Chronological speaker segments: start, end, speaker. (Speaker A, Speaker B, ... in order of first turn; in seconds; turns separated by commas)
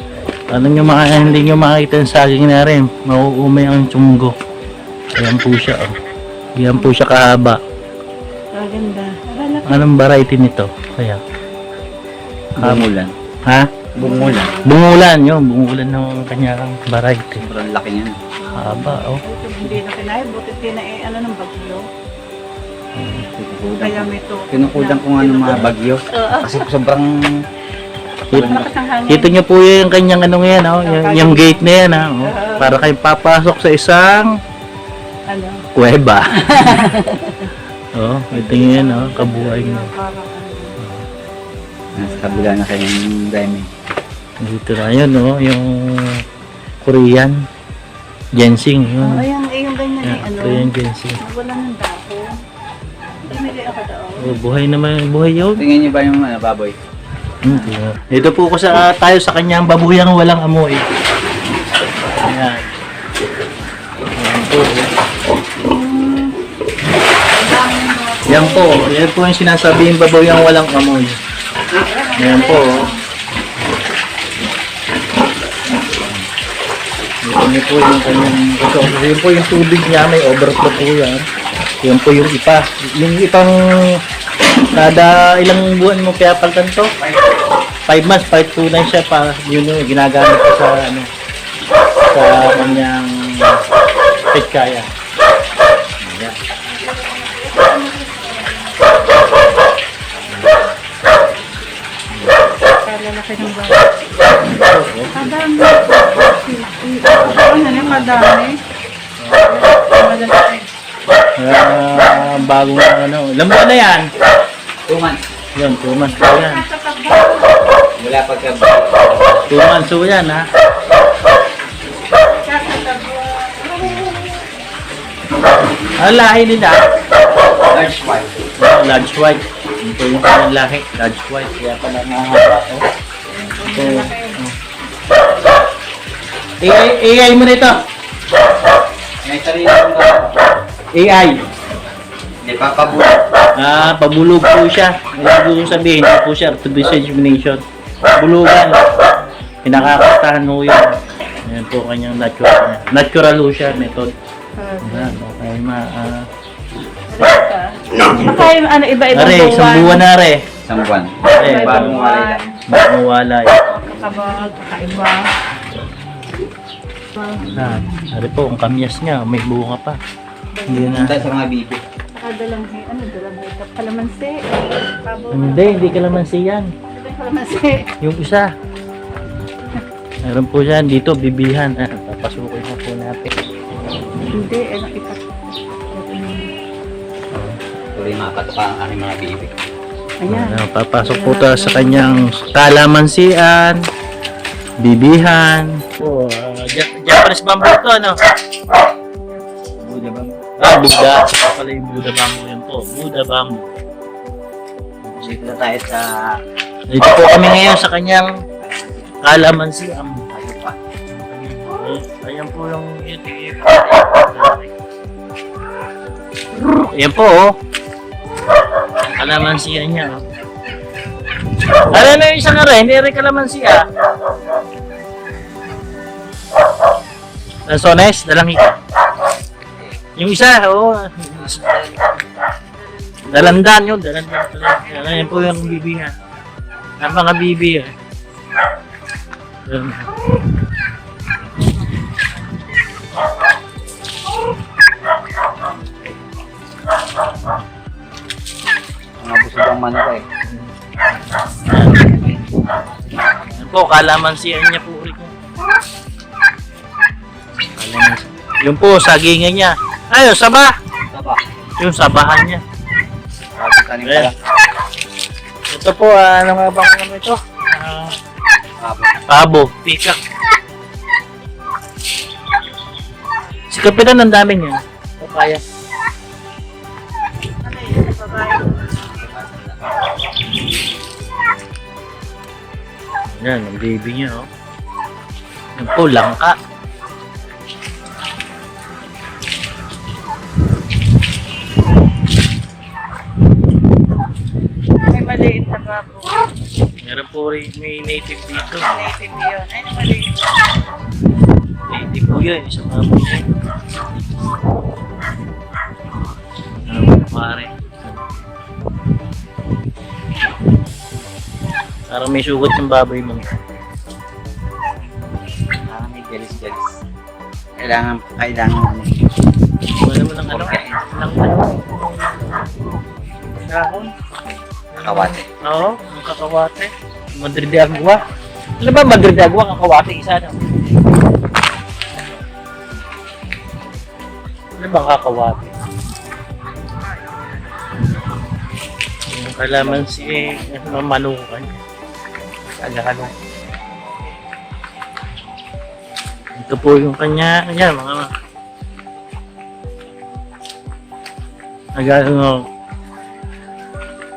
Speaker A: 0.5-4.3, Speaker A: 5.2-5.9, Speaker A: 6.6-7.6, Speaker B: 8.5-9.8, Speaker A: 9.7-11.2, Speaker C: 12.6-13.1, Speaker A: 12.6-12.9, Speaker C: 13.9-14.5, Speaker B: 14.0-14.8, Speaker A: 14.6-17.4, Speaker C: 17.3-18.2, Speaker B: 18.4-21.8, Speaker A: 18.6-19.8, Speaker A: 23.0-23.3, Speaker C: 23.4-27.5, Speaker B: 23.7-26.6, Speaker A: 28.3-34.3, Speaker C: 28.3-28.7, Speaker B: 28.3-29.4, Speaker B: 30.8-32.9, Speaker B: 35.3-35.7, Speaker A: 35.8-36.9, Speaker B: 36.4-37.5, Speaker A: 38.0-39.9, Speaker B: 38.3-40.8, Speaker A: 40.8-41.1, Speaker B: 42.0-42.6, Speaker C: 42.0-43.7, Speaker A: 44.4-46.2, Speaker A: 46.8-47.4, Speaker A: 48.3-49.3, Speaker B: 49.0-52.4, Speaker A: 50.0-51.2, Speaker B: 53.3-54.4, Speaker A: 54.2-55.7, Speaker C: 55.5-56.8, Speaker A: 57.4-60.8, Speaker B: 57.5-57.7, Speaker A: 62.2-62.6, Speaker A: 64.2-64.9, Speaker B: 65.6-66.4, Speaker B: 67.3-68.8, Speaker A: 68.3-71.2, Speaker B: 71.7-73.0, Speaker A: 72.2-72.9, Speaker A: 77.2-81.2, Speaker A: 81.8-84.0, Speaker A: 84.7-86.9, Speaker A: 87.9-91.1, Speaker A: 92.1-93.6, Speaker A: 94.3-94.9, Speaker C: 96.0-96.3, Speaker B: 96.7-100.7, Speaker B: 102.7-104.3, Speaker A: 104.4-105.2, Speaker B: 105.1-108.6, Speaker A: 107.8-108.1, Speaker B: 109.3-110.7, Speaker A: 111.4-114.1, Speaker B: 112.0-112.6, Speaker C: 114.9-115.2, Speaker A: 115.6-116.7, Speaker B: 116.0-117.7, Speaker C: 118.0-119.5, Speaker A: 119.5-120.4, Speaker B: 122.4-124.5, Speaker A: 126.0-126.8, Speaker C: 127.7-128.4, Speaker A: 128.6-132.9, Speaker B: 133.3-134.4, Speaker A: 133.7-134.5, Speaker A: 136.6-137.8, Speaker C: 139.2-140.4, Speaker A: 140.9-141.4, Speaker C: 142.4-143.2, Speaker A: 143.6-147.6, Speaker A: 148.2-148.8, Speaker A: 149.6-154.1, Speaker B: 154.6-155.2, Speaker A: 154.8-156.3, Speaker B: 157.1-160.1, Speaker A: 158.2-158.5, Speaker A: 159.1-160.5, Speaker C: 160.7-162.4, Speaker B: 161.3-162.6, Speaker A: 161.4-162.0, Speaker A: 162.7-163.6, Speaker B: 163.7-165.3, Speaker A: 167.4-170.0, Speaker B: 170.5-171.1, Speaker A: 170.7-171.3, Speaker C: 170.7-171.9, Speaker B: 172.1-176.1, Speaker A: 175.3-176.7, Speaker B: 176.9-177.9, Speaker A: 178.0-178.5, Speaker A: 180.2-183.3, Speaker B: 184.3-185.2, Speaker B: 185.9-186.5, Speaker A: 187.3-187.6, Speaker C: 187.9-189.5, Speaker B: 190.2-192.3, Speaker A: 190.3-193.8, Speaker A: 194.8-198.2, Speaker C: 199.8-200.4, Speaker A: 200.6-203.7, Speaker A: 205.0-205.4, Speaker C: 205.2-206.3, Speaker A: 206.9-208.3, Speaker C: 208.6-209.2, Speaker A: 209.2-210.2, Speaker C: 210.3-210.8, Speaker A: 211.1-214.7, Speaker A: 216.7-217.5, Speaker A: 219.2-220.2, Speaker A: 221.9-223.8, Speaker A: 227.7-228.8, Speaker A: 230.2-231.8, Speaker B: 232.9-233.3, Speaker A: 233.2-236.1, Speaker B: 234.9-235.7, Speaker A: 237.0-237.9, Speaker A: 239.7-240.1, Speaker C: 249.2-250.2, Speaker A: 251.7-252.1, Speaker C: 252.0-252.8, Speaker A: 253.6-255.3, Speaker A: 257.8-260.7, Speaker C: 261.1-261.4, Speaker A: 261.8-262.6, Speaker C: 263.6-264.4, Speaker A: 264.1-264.3, Speaker A: 265.7-268.1, Speaker C: 268.8-269.2, Speaker A: 269.3-270.2, Speaker A: 273.7-275.6, Speaker B: 277.5-278.9, Speaker C: 279.1-280.1, Speaker A: 283.4-284.5, Speaker A: 285.8-286.6, Speaker B: 295.0-296.5, Speaker A: 297.0-298.9, Speaker B: 298.8-300.3, Speaker A: 301.9-303.4, Speaker A: 306.9-308.2, Speaker A: 312.1-313.6, Speaker C: 315.9-316.9, Speaker C: 317.8-319.3, Speaker A: 320.0-322.4, Speaker C: 320.4-321.1, Speaker A: 323.6-324.1, Speaker A: 324.9-328.2, Speaker C: 325.0-325.5, Speaker A: 328.8-330.6, Speaker A: 334.8-335.7, Speaker A: 339.3-341.8, Speaker C: 339.9-340.5, Speaker A: 342.8-343.3, Speaker A: 346.6-348.3, Speaker A: 351.9-352.6